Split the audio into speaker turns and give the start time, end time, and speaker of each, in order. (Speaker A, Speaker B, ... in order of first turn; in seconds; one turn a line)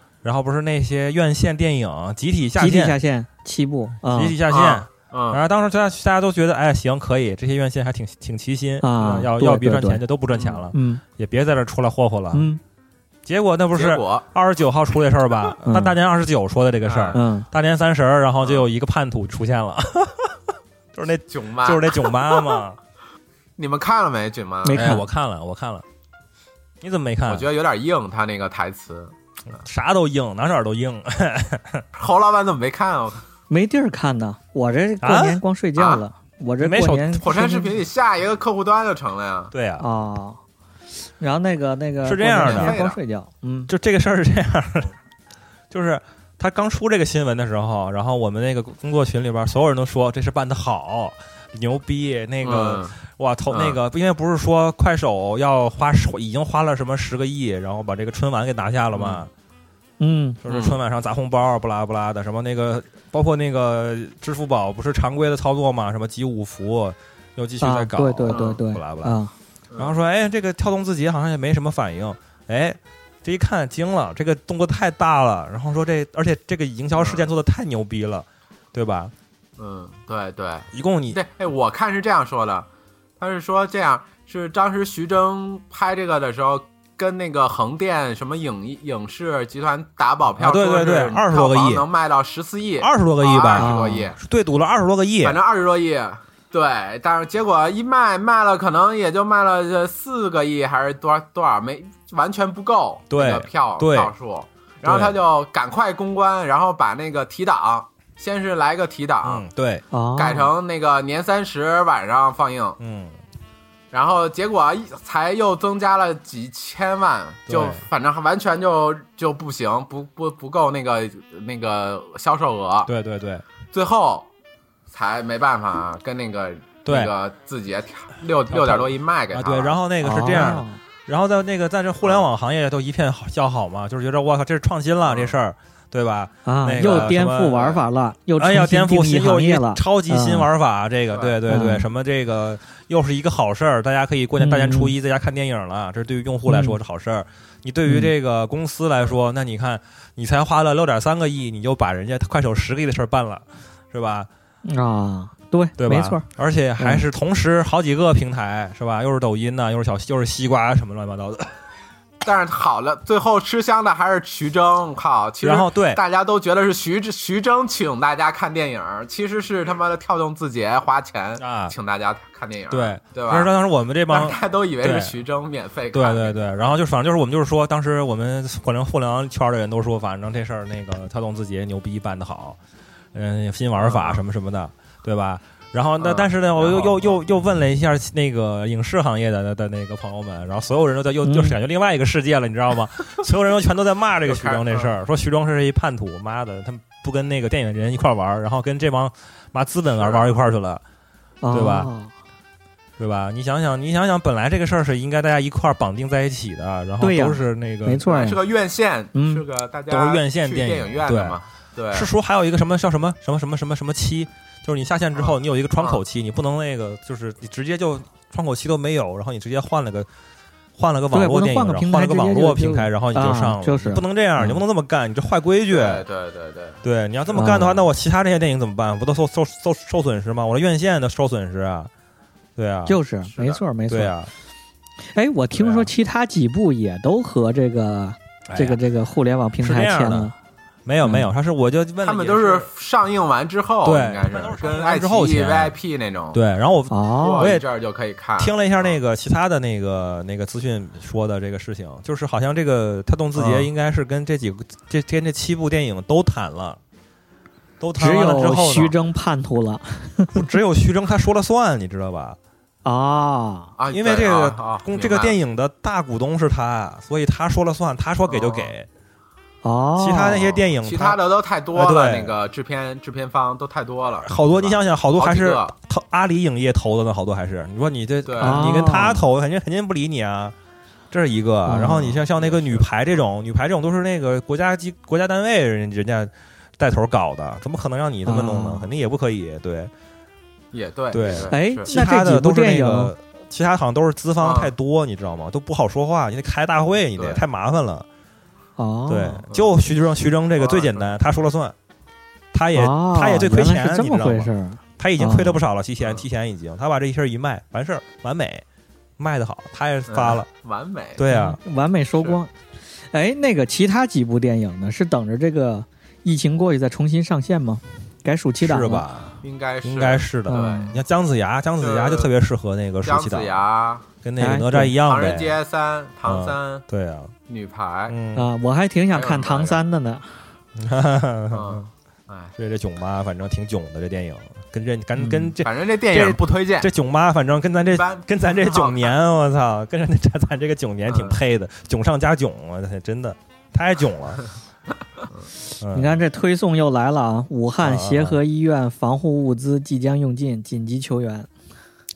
Speaker A: 0.2-3.0
Speaker B: 2.6-4.4
Speaker A: 4.1-12.4
Speaker C: 4.5-5.4
Speaker B: 8.8-10.0
Speaker C: 10.3-10.6
Speaker B: 10.7-11.0
Speaker B: 12.3-12.6
Speaker A: 13.3-20.4
Speaker C: 13.8-14.3
Speaker B: 15.6-15.9
Speaker C: 16.9-17.2
Speaker B: 17.1-17.5
Speaker A: 20.9-22.8
Speaker C: 21.3-22.6
Speaker C: 23.6-24.9
Speaker B: 24.6-25.0
Speaker A: 24.8-25.9
Speaker A: 26.8-27.5
Speaker C: 27.3-29.1
Speaker A: 29.5-31.9
Speaker C: 32.0-33.2
Speaker B: 33.5-37.7
Speaker A: 35.0-35.4
Speaker C: 35.8-36.0
Speaker A: 36.6-37.2
Speaker C: 37.2-39.5
Speaker A: 39.5-39.9
Speaker B: 39.8-40.4
Speaker B: 41.2-43.7
Speaker A: 42.0-42.8
Speaker C: 42.4-43.0
Speaker A: 43.7-44.9
Speaker A: 45.7-59.3
Speaker C: 52.4-53.0
Speaker C: 53.5-53.8
Speaker C: 58.9-59.2
Speaker B: 60.0-60.4
Speaker A: 60.4-69.2
Speaker C: 60.5-60.8
Speaker B: 67.6-69.3
Speaker C: 68.3-68.6
Speaker C: 69.7-70.0
Speaker A: 69.8-79.1
Speaker C: 77.0-77.3
Speaker C: 79.6-82.7
Speaker A: 80.7-81.2
Speaker C: 83.2-94.2
Speaker A: 90.4-91.8
Speaker A: 92.8-95.4
Speaker B: 93.6-94.1
Speaker C: 95.2-109.5
Speaker A: 103.1-104.1
Speaker A: 104.8-105.2
Speaker A: 109.2-109.8
Speaker B: 109.9-110.5
Speaker C: 110.2-112.8
Speaker A: 112.8-113.2
Speaker C: 113.9-122.9
Speaker A: 117.5-117.8
Speaker A: 122.9-123.4
Speaker C: 123.7-124.3
Speaker C: 124.9-129.8
Speaker A: 126.9-127.1
Speaker A: 128.5-137.8
Speaker B: 130.0-130.8
Speaker C: 135.1-135.4
Speaker B: 136.5-140.5
Speaker C: 136.8-137.8
Speaker A: 138.4-154.3
Speaker C: 141.1-141.4
Speaker B: 141.5-141.9
Speaker B: 144.4-144.9
Speaker B: 146.5-146.8
Speaker B: 147.8-148.1
Speaker B: 154.7-156.2
Speaker A: 155.8-161.5
Speaker B: 156.8-157.0
Speaker C: 162.2-173.5
Speaker A: 165.4-166.0
Speaker A: 171.4-171.7
Speaker A: 172.7-175.2
Speaker C: 174.1-176.5
Speaker A: 175.9-182.6
Speaker A: 183.1-200.8
Speaker C: 183.8-184.2
Speaker C: 186.0-187.2
Speaker B: 191.2-191.6
Speaker C: 194.2-194.9
Speaker C: 200.0-200.4
Speaker B: 201.4-202.1
Speaker A: 201.5-201.9
Speaker A: 203.0-208.1
Speaker B: 207.0-208.4
Speaker C: 208.1-212.1
Speaker B: 209.2-209.4
Speaker A: 209.9-211.4
Speaker A: 211.9-220.1
Speaker C: 215.2-216.0
Speaker A: 220.8-226.1
Speaker B: 221.1-224.6
Speaker C: 225.7-226.8
Speaker A: 226.8-231.9
Speaker B: 227.3-227.8
Speaker A: 232.6-233.0
Speaker B: 232.9-234.1
Speaker C: 233.3-233.6
Speaker A: 233.9-234.3
Speaker B: 235.1-240.3
Speaker A: 235.6-235.9
Speaker A: 238.5-238.8
Speaker A: 239.6-240.3
Speaker A: 240.9-242.7
Speaker B: 241.0-241.3
Speaker C: 242.0-246.4
Speaker A: 243.8-245.8
Speaker A: 246.3-247.7
Speaker B: 246.9-247.5
Speaker C: 247.2-249.0
Speaker A: 248.4-256.8
Speaker B: 253.3-253.7
Speaker A: 257.8-258.9
Speaker B: 258.0-260.5
Speaker A: 260.3-262.4
Speaker B: 262.9-263.7
Speaker C: 263.8-265.4
Speaker A: 263.9-268.9
Speaker C: 268.3-268.7
Speaker B: 269.6-270.6
Speaker A: 270.0-271.2
Speaker C: 270.7-275.7
Speaker A: 271.7-272.4
Speaker A: 274.2-280.5
Speaker C: 278.3-279.0
Speaker B: 278.4-279.2
Speaker A: 281.1-289.9
Speaker B: 281.6-282.2
Speaker C: 282.2-283.0
Speaker B: 288.3-288.9
Speaker C: 290.7-291.9
Speaker A: 291.1-298.1
Speaker B: 291.5-293.1
Speaker C: 294.4-294.7
Speaker C: 297.2-297.4
Speaker B: 298.8-299.4
Speaker A: 299.1-301.7
Speaker C: 300.6-301.2
Speaker A: 302.5-308.6
Speaker B: 302.8-305.6
Speaker C: 306.0-306.3
Speaker A: 309.2-310.5
Speaker C: 310.1-311.2
Speaker A: 311.2-311.6
Speaker B: 311.3-312.5
Speaker B: 313.1-319.1
Speaker A: 318.6-323.6
Speaker C: 319.4-321.0
Speaker B: 320.5-320.9
Speaker C: 321.8-322.3
Speaker C: 323.1-324.1
Speaker A: 324.2-325.6
Speaker B: 324.4-324.9
Speaker C: 325.0-326.8
Speaker A: 326.2-327.3
Speaker C: 327.5-328.2
Speaker A: 328.1-328.5
Speaker B: 328.4-330.3
Speaker C: 329.1-329.8
Speaker A: 330.8-331.9
Speaker C: 331.5-332.5
Speaker A: 332.6-344.4
Speaker B: 335.2-335.5
Speaker C: 335.6-336.9
Speaker C: 337.9-339.1
Speaker C: 341.1-341.4
Speaker A: 345.8-346.2
Speaker B: 345.9-351.5
Speaker A: 347.8-348.4